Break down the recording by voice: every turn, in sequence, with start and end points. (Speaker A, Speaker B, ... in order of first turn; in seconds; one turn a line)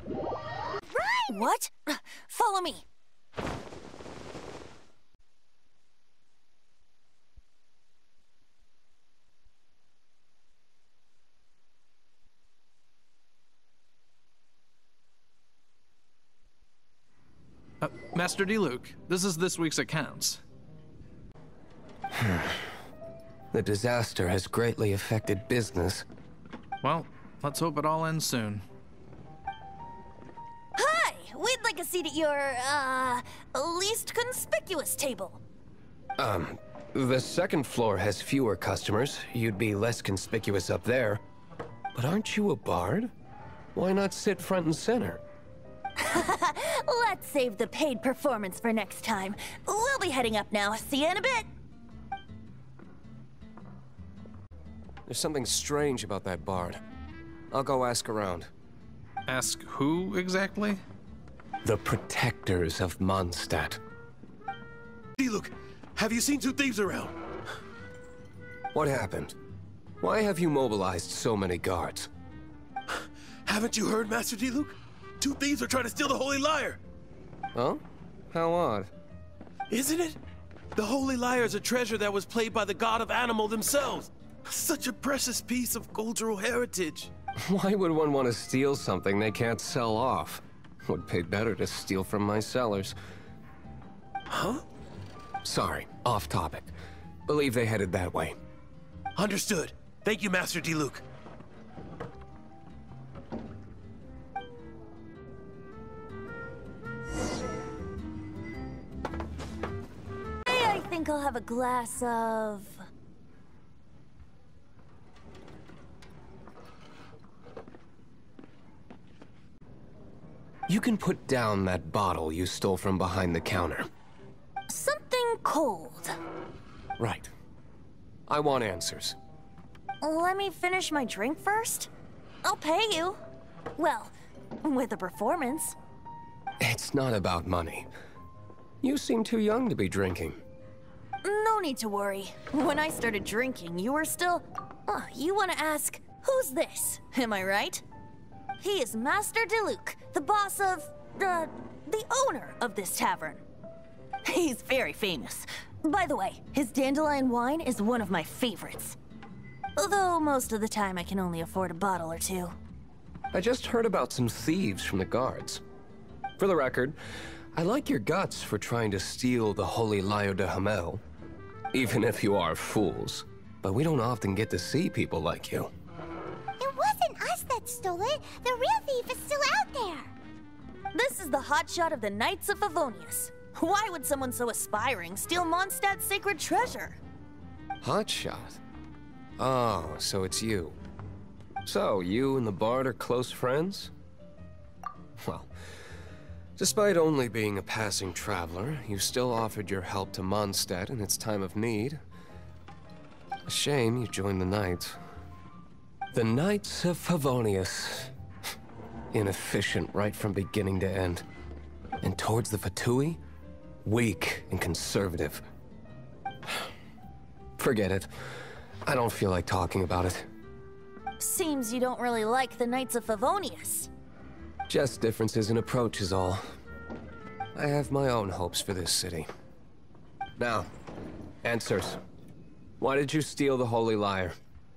Speaker A: 0.8-1.5
Speaker B: 1.3-2.9
Speaker C: 17.8-20.4
Speaker D: 22.1-22.6
Speaker D: 23.5-26.1
Speaker C: 26.8-28.7
Speaker B: 30.8-35.4
Speaker D: 36.2-41.2
Speaker D: 42.0-43.1
Speaker D: 43.8-45.2
Speaker B: 46.0-51.5
Speaker D: 55.1-56.8
Speaker D: 57.5-58.5
Speaker C: 59.3-60.8
Speaker D: 61.6-63.8
Speaker E: 65.2-67.2
Speaker D: 68.7-69.4
Speaker D: 70.0-72.1
Speaker E: 73.5-76.8
Speaker D: 77.5-78.9
Speaker E: 79.7-80.2
Speaker E: 80.8-87.1
Speaker D: 87.4-93.0
Speaker E: 94.3-94.6
Speaker D: 95.4-96.7
Speaker D: 97.3-98.4
Speaker E: 99.2-101.0
Speaker B: 110.5-112.8
Speaker D: 120.7-123.9
Speaker B: 124.7-126.2
Speaker D: 127.0-127.3
Speaker D: 128.3-129.2
Speaker B: 130.0-131.9
Speaker B: 132.4-133.2
Speaker B: 133.8-135.8
Speaker D: 136.6-137.9
Speaker D: 138.8-140.4
Speaker B: 141.2-147.8
Speaker B: 148.6-153.4
Speaker B: 154.2-159.0
Speaker B: 159.8-162.5
Speaker D: 163.3-165.6
Speaker D: 166.4-167.0
Speaker D: 167.5-171.0
Speaker D: 171.7-175.7
Speaker A: 176.6-180.1
Speaker B: 180.9-187.0
Speaker D: 187.8-188.6
Speaker D: 189.4-190.8
Speaker D: 191.7-193.9
Speaker D: 195.2-195.5
Speaker D: 196.6-202.0
Speaker D: 203.5-205.0
Speaker D: 206.1-208.1
Speaker D: 209.1-211.2
Speaker D: 212.0-213.2
Speaker D: 213.8-215.4
Speaker D: 217.6-218.1
Speaker D: 218.9-220.3
Speaker B: 221.2-223.9
Speaker D: 224.7-226.4
Speaker D: 227.6-229.3
Speaker D: 230.4-230.7
Speaker D: 231.4-232.0
Speaker D: 232.8-234.4